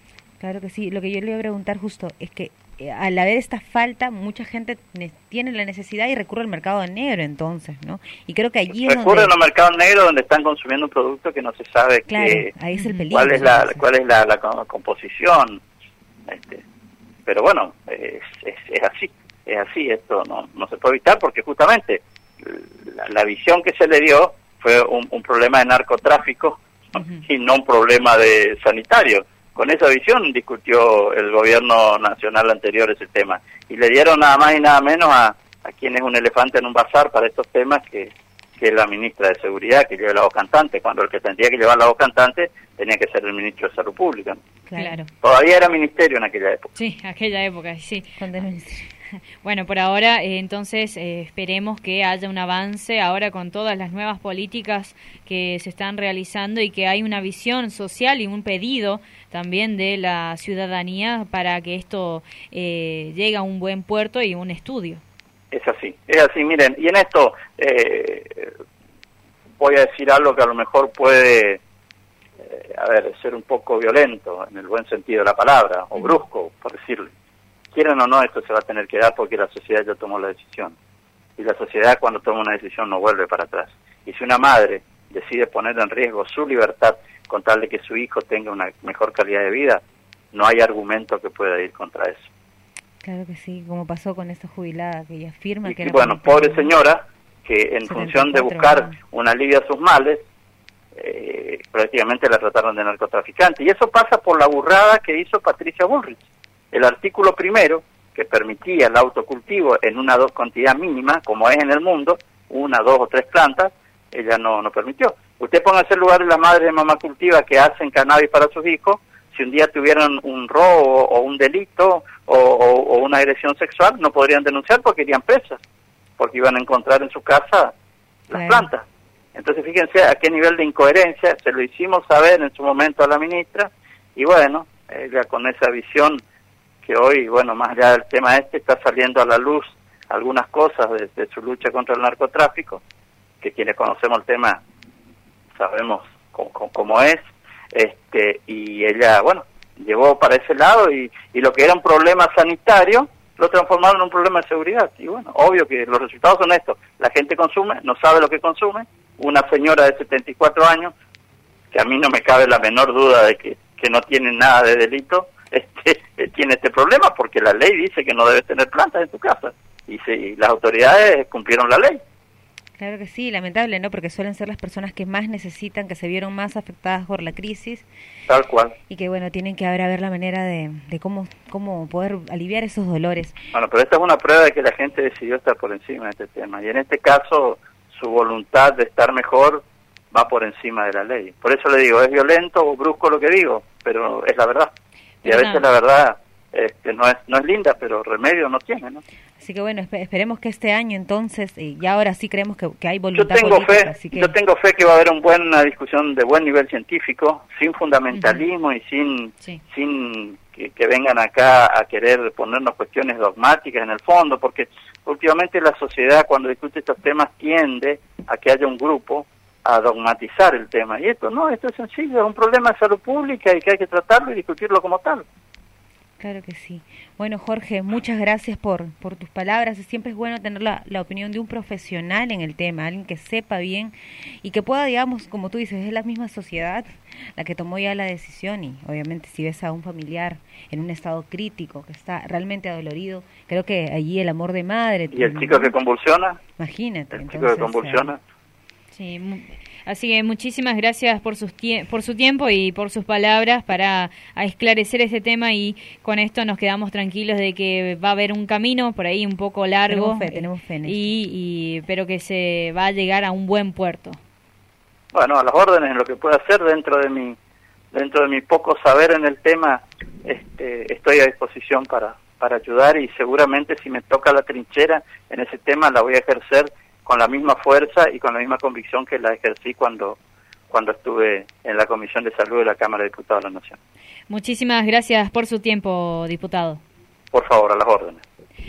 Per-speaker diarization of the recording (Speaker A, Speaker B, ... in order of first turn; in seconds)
Speaker A: 0.4-9.3, 12.1-13.8, 44.6-45.0, 48.2-48.9, 93.0-96.7, 97.9-99.0, 128.3-128.7, 172.8-177.9, 178.9-183.4, 199.4-204.3, 226.2-245.7, 246.6-248.1, 259.9-261.1
Speaker B: 8.8-12.5, 13.1-15.6, 16.3-16.6, 17.2-44.4, 45.2-46.7, 65.5-68.5, 69.6-71.6, 72.4-77.1, 77.7-80.8, 81.4-92.3, 95.6-100.2, 100.9-125.6, 126.2-127.7, 128.3-136.2, 136.8-142.8, 143.4-144.6, 145.5-160.9, 161.7-172.0, 178.3-178.8, 183.5-194.7, 195.2-199.0, 203.1-225.2, 245.1-246.4, 247.1-248.2, 265.1-267.4, 267.9-280.2, 280.7-283.8, 287.3-288.2
Speaker C: 12.7-13.1, 27.0-27.2, 44.8-45.1, 46.8-48.2, 49.4-65.0, 195.2-195.6, 208.1-208.4, 248.9-264.2, 284.3-286.8